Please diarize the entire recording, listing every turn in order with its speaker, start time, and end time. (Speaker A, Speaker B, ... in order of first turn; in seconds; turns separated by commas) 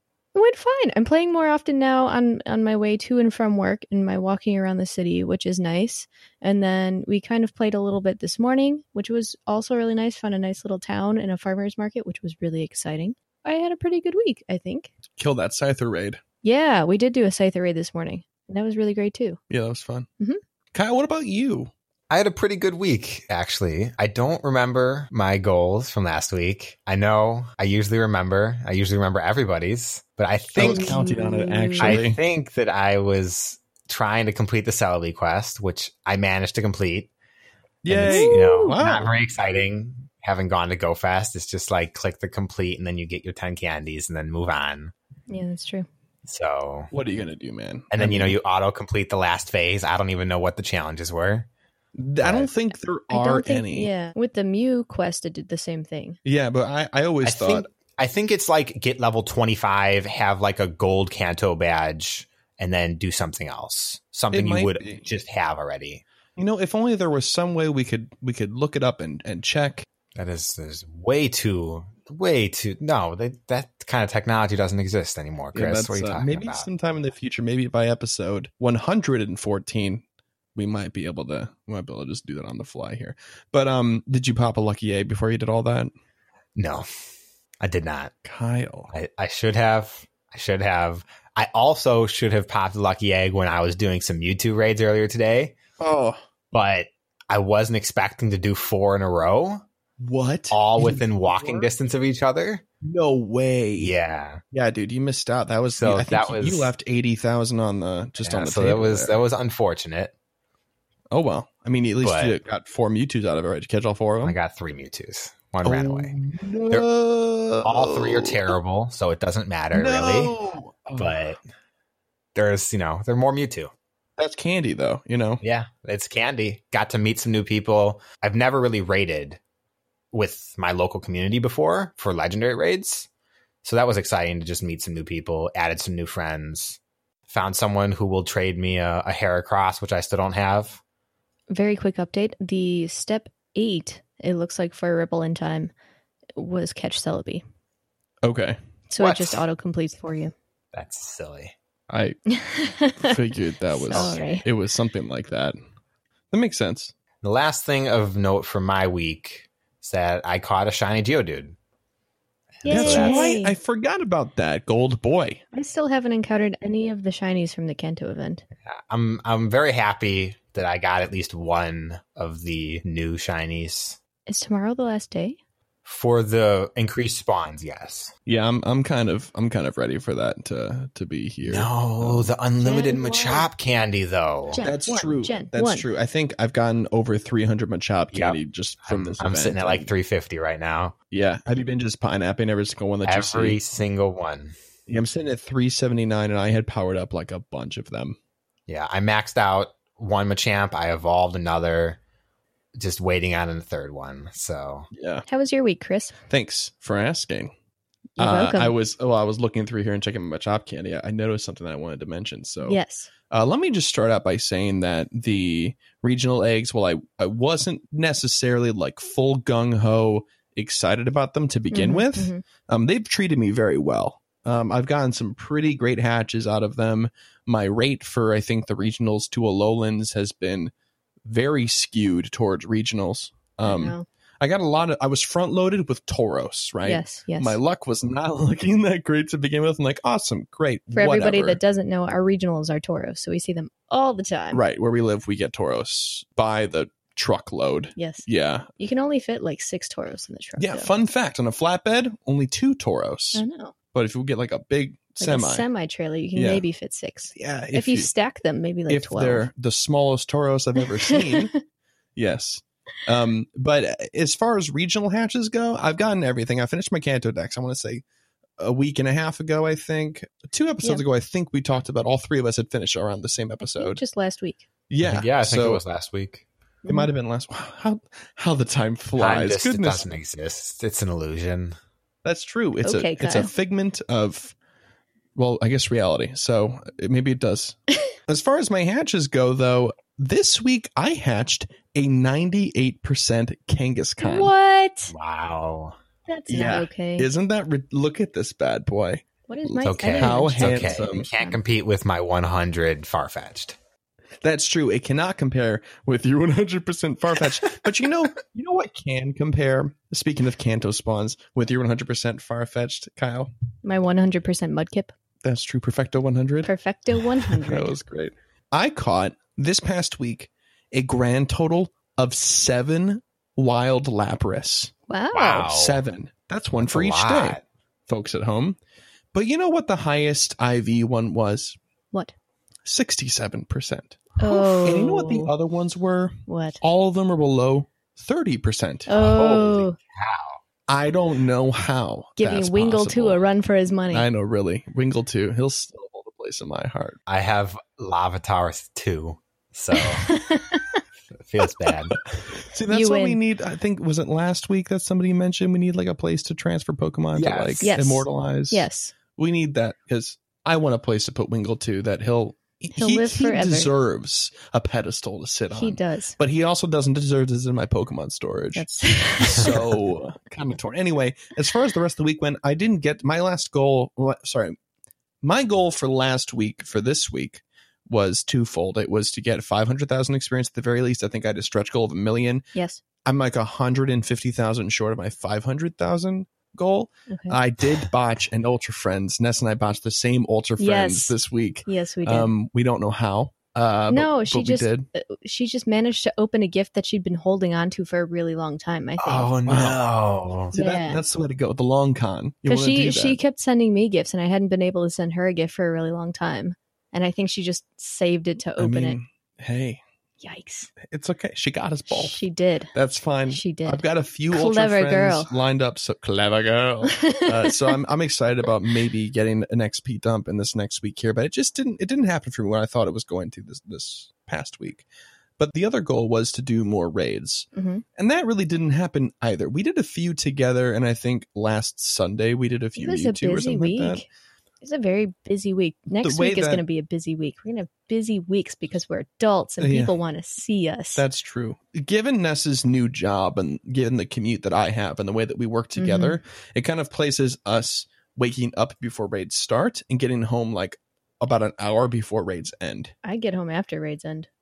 Speaker A: 0.3-14.9, Speaker B: 15.2-16.2, Speaker A: 16.4-19.4, Speaker B: 19.5-20.1, Speaker B: 20.7-21.7, Speaker C: 22.1-31.0, Speaker B: 30.5-32.2, Speaker A: 30.6-32.0, Speaker C: 31.8-37.1, Speaker B: 37.8-39.2, Speaker C: 37.9-44.9, Speaker A: 38.1-38.8, Speaker A: 45.3-45.9, Speaker C: 46.3-46.9, Speaker B: 46.9-48.4, Speaker C: 47.9-51.5, Speaker B: 52.0-53.9, Speaker C: 52.2-52.5, Speaker A: 53.1-56.2, Speaker B: 56.2-57.7, Speaker C: 57.2-66.0, Speaker B: 64.3-65.0, Speaker B: 66.4-69.8, Speaker C: 70.2-76.7, Speaker B: 75.5-80.0, Speaker B: 80.5-85.9, Speaker C: 86.6-86.9, Speaker C: 87.6-88.1, Speaker B: 88.2-88.9, Speaker C: 88.9-95.5, Speaker B: 95.8-96.2, Speaker C: 96.5-99.6, Speaker B: 100.0-101.7, Speaker C: 100.5-102.6, Speaker B: 102.8-104.0, Speaker C: 103.8-104.4, Speaker B: 104.5-109.2, Speaker C: 105.8-106.7, Speaker C: 108.2-110.1, Speaker B: 111.1-114.4, Speaker C: 112.0-112.4, Speaker C: 114.2-116.2, Speaker B: 115.6-118.5, Speaker C: 117.6-120.3, Speaker B: 119.7-121.2, Speaker C: 121.0-121.4, Speaker C: 122.3-123.7, Speaker B: 124.2-125.4, Speaker C: 125.4-129.4, Speaker C: 130.1-133.1, Speaker C: 133.6-140.8, Speaker A: 141.5-145.7, Speaker A: 146.4-147.4, Speaker B: 148.2-148.6, Speaker A: 148.9-150.3, Speaker C: 149.0-149.4, Speaker C: 150.7-151.5, Speaker B: 151.9-152.2, Speaker A: 152.3-154.4, Speaker B: 153.0-155.6, Speaker C: 153.9-154.2, Speaker B: 156.3-156.9, Speaker C: 157.2-161.6, Speaker C: 162.6-163.4, Speaker A: 162.7-163.6, Speaker B: 162.7-165.4, Speaker A: 165.5-168.4, Speaker C: 168.7-174.0, Speaker A: 174.3-175.4, Speaker C: 175.8-178.1, Speaker B: 178.3-182.3, Speaker C: 181.4-184.6, Speaker A: 182.6-183.5, Speaker A: 184.5-185.9, Speaker B: 184.6-189.9, Speaker C: 188.1-191.0, Speaker B: 191.1-193.6, Speaker C: 193.1-194.6, Speaker B: 194.9-198.2, Speaker C: 198.7-202.0, Speaker C: 202.8-204.9, Speaker B: 204.9-205.2, Speaker A: 205.3-206.2, Speaker B: 206.3-207.5, Speaker A: 208.2-208.7, Speaker B: 208.2-212.8, Speaker A: 212.6-213.1, Speaker B: 213.3-230.7, Speaker A: 221.7-222.4, Speaker B: 231.2-241.6, Speaker A: 233.6-234.1, Speaker A: 236.8-237.6, Speaker A: 240.9-244.6, Speaker B: 244.5-248.7, Speaker A: 248.0-248.3, Speaker A: 248.8-250.9, Speaker B: 250.6-255.7, Speaker A: 253.3-253.7, Speaker A: 255.2-259.5, Speaker B: 256.4-256.6, Speaker B: 257.3-258.1, Speaker B: 258.9-261.5, Speaker A: 260.8-261.6, Speaker B: 262.2-268.0, Speaker B: 268.6-274.0, Speaker A: 273.6-274.6, Speaker B: 274.9-275.8, Speaker C: 275.0-276.4, Speaker A: 276.8-277.1, Speaker B: 276.9-280.1, Speaker C: 279.2-281.8, Speaker B: 282.2-284.6, Speaker A: 282.8-283.5, Speaker B: 285.4-294.5, Speaker A: 294.2-295.1, Speaker C: 295.1-296.0, Speaker A: 296.3-297.3, Speaker B: 296.5-301.3, Speaker A: 299.5-301.6, Speaker C: 299.9-303.8, Speaker B: 304.4-313.5, Speaker A: 313.8-315.1, Speaker B: 315.4-316.7, Speaker A: 316.6-317.9, Speaker B: 317.5-324.9, Speaker A: 325.1-325.6, Speaker C: 325.3-326.0, Speaker B: 325.6-328.8, Speaker C: 326.8-327.6, Speaker B: 329.3-331.8, Speaker B: 332.9-339.2, Speaker A: 334.4-335.5, Speaker A: 336.5-336.8, Speaker A: 339.1-340.0, Speaker C: 339.1-340.6, Speaker B: 340.9-343.4, Speaker A: 342.4-344.3, Speaker B: 344.1-347.2, Speaker C: 347.3-350.3, Speaker A: 349.9-351.0, Speaker C: 351.3-352.2, Speaker B: 352.1-368.9, Speaker A: 352.9-353.4, Speaker C: 357.3-357.9, Speaker A: 357.8-359.1, Speaker A: 363.0-363.9, Speaker A: 365.8-366.4, Speaker A: 368.8-369.8, Speaker B: 369.4-374.8, Speaker B: 375.4-382.7, Speaker A: 382.8-383.0, Speaker B: 383.2-395.1, Speaker A: 387.3-388.0, Speaker A: 390.8-392.5, Speaker A: 394.1-399.5, Speaker C: 399.2-400.7, Speaker B: 399.7-400.0, Speaker B: 400.7-403.4, Speaker A: 400.7-401.2, Speaker A: 402.7-409.2, Speaker B: 408.8-410.0, Speaker A: 410.4-410.9, Speaker B: 411.0-412.4, Speaker A: 412.1-412.9, Speaker B: 412.9-425.1, Speaker A: 413.5-415.5, Speaker A: 417.1-417.8, Speaker B: 425.6-434.2, Speaker A: 427.8-428.0, Speaker A: 433.0-434.2, Speaker A: 434.8-441.2, Speaker B: 436.2-436.8, Speaker B: 439.8-440.1, Speaker B: 441.2-453.1, Speaker A: 446.0-446.4, Speaker A: 453.2-454.5